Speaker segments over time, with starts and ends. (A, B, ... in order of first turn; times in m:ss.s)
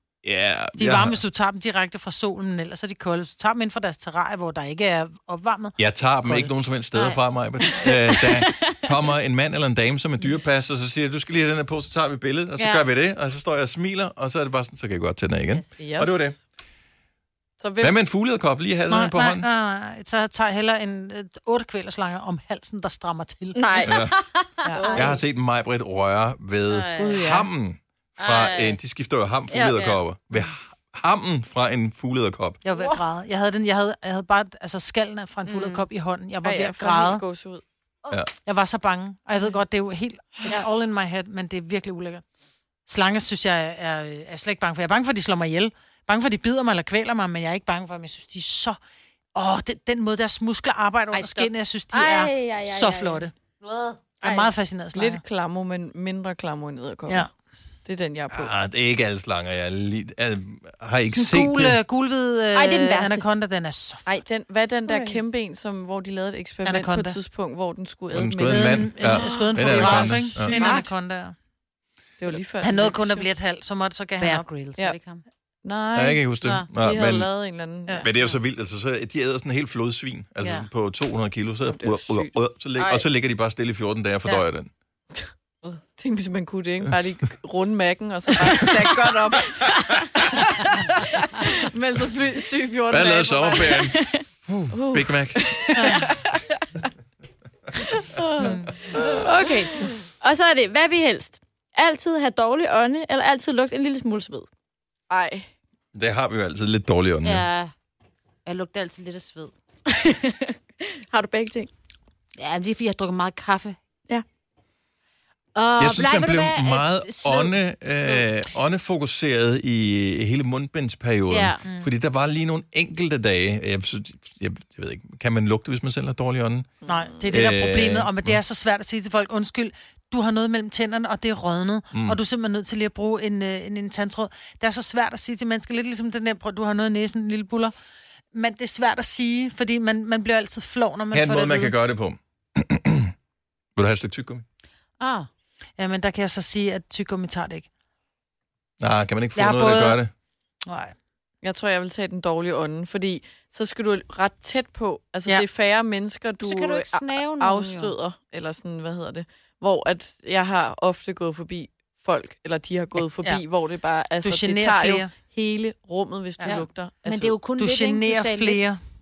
0:00.2-0:01.2 A
0:00.8-0:05.8 B
0:05.8-0:16.4 A
0:06.9-0:07.2 C
0:07.7-0:08.0 C
0:12.6-0:12.8 C
0:15.8-0:16.4 D
0:17.6-0:18.0 D
0:17.8-0:19.5 A
0:18.9-0:23.6 B
0:23.5-0:24.0 E
0:23.8-0:24.2 A
0:23.9-0:25.2 C
0:24.6-0:25.1 D
0:24.8-0:25.2 E
0:24.9-0:32.6 A
0:26.7-0:27.2 C
0:27.0-0:27.5 D
0:28.2-0:28.8 C
0:29.5-0:29.8 E
0:29.7-0:30.0 C
0:32.6-0:37.2 B
0:35.4-0:35.8 C
0:36.4-0:37.6 D
0:38.4-0:42.2 B
0:42.9-0:48.8 B
0:49.3-0:53.3 B
0:51.1-0:51.5 C
0:51.9-0:53.3 E
0:53.6-0:54.0 C
0:54.2-0:55.2 B
0:54.2-0:54.5 E
0:54.9-0:57.3 D
0:57.8-0:58.5 D
0:58.3-1:01.8 A
1:01.1-1:04.1 B
1:02.5-1:03.2 E
1:04.1-1:10.8 D
1:04.9-1:05.2 E
1:06.6-1:07.2 B
1:08.1-1:10.5 A
1:08.4-1:11.3 B
1:10.5-1:10.9 E
1:12.2-1:13.3 D
1:12.6-1:14.5 B
1:14.2-1:15.2 C
1:15.6-1:18.1 D
1:15.9-1:17.3 A
1:16.4-1:16.7 C
1:18.0-1:24.7 A
1:20.4-1:20.7 C
1:21.6-1:22.3 D
1:25.6-1:33.9 D
1:29.6-1:30.2 A
1:32.9-1:35.7 A
1:34.7-1:36.6 D
1:35.8-1:36.0 B
1:38.0-1:44.5 E
1:38.4-1:39.0 D
1:45.1-1:45.5 D
1:45.9-1:47.5 A
1:47.2-1:47.7 C
1:48.4-1:49.5 C
1:49.9-1:51.7 E
1:52.4-1:53.8 C
1:55.5-1:58.2 C
1:55.8-2:06.7 A
2:01.3-2:01.6 C
2:01.6-2:01.9 B
2:06.8-2:07.2 D
2:06.9-2:17.7 B
2:07.2-2:08.4 A
2:11.9-2:12.2 A
2:18.3-2:21.7 B
2:21.1-2:23.1 A
2:23.8-2:24.4 A
2:25.0-2:25.3 C
2:25.8-2:27.7 B
2:28.8-2:30.1 A
2:29.4-2:30.0 B
2:30.6-2:30.9 B
2:31.4-2:47.4 D
2:36.4-2:37.9 C
2:44.2-2:45.1 B
2:46.4-2:48.7 C
2:47.6-2:48.8 B